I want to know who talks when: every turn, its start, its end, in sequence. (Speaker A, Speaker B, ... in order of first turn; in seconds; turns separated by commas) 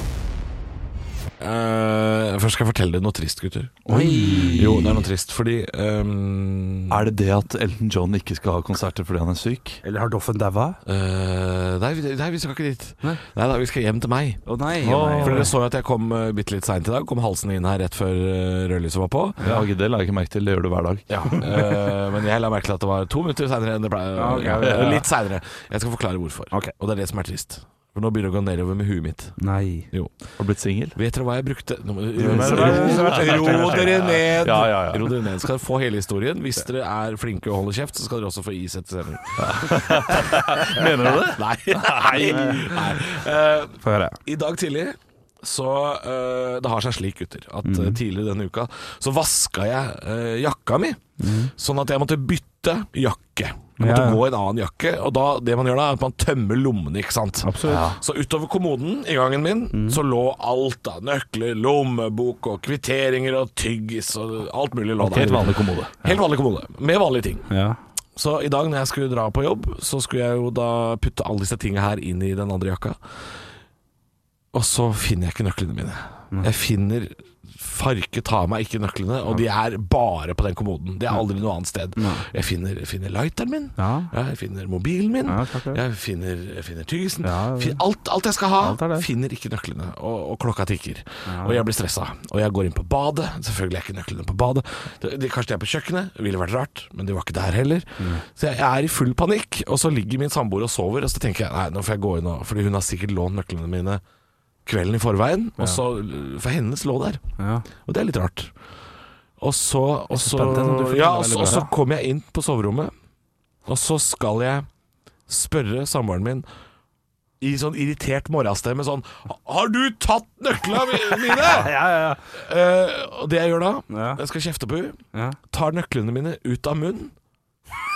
Speaker A: 1.4-7.1, Speaker B: 3.9-4.8, Speaker C: 4.6-4.9, Speaker C: 6.9-9.8, Speaker B: 9.8-10.8, Speaker A: 10.9-14.4, Speaker B: 14.5-15.5, Speaker C: 14.8-15.5, Speaker A: 15.2-19.4, Speaker C: 19.4-21.5, Speaker A: 21.1-29.4, Speaker B: 24.2-25.1, Speaker C: 24.4-25.0, Speaker B: 29.4-29.9, Speaker C: 30.4-31.0, Speaker A: 30.9-67.5, Speaker B: 32.2-34.1, Speaker C: 32.2-35.3, Speaker C: 39.4-42.9, Speaker B: 42.2-42.7, Speaker B: 43.8-44.2, Speaker B: 47.6-48.0, Speaker B: 51.2-51.5, Speaker B: 53.8-54.2, Speaker B: 57.4-57.9, Speaker C: 57.6-58.0, Speaker B: 59.7-60.0, Speaker C: 65.0-66.1, Speaker B: 67.5-67.8, Speaker A: 68.2-73.0, Speaker A: 74.5-104.0, Speaker B: 82.0-82.2, Speaker B: 83.8-84.1, Speaker B: 85.3-85.8, Speaker B: 87.2-87.8, Speaker B: 88.6-89.1, Speaker B: 91.3-91.6, Speaker A: 104.7-107.2, Speaker B: 107.4-107.7, Speaker A: 107.8-108.5, Speaker A: 109.4-112.9, Speaker C: 110.2-111.7, Speaker B: 111.0-111.7, Speaker A: 113.7-114.7, Speaker A: 115.3-116.5, Speaker A: 117.4-121.7, Speaker B: 121.3-122.2, Speaker A: 122.3-125.0, Speaker B: 123.9-124.2, Speaker A: 125.5-127.1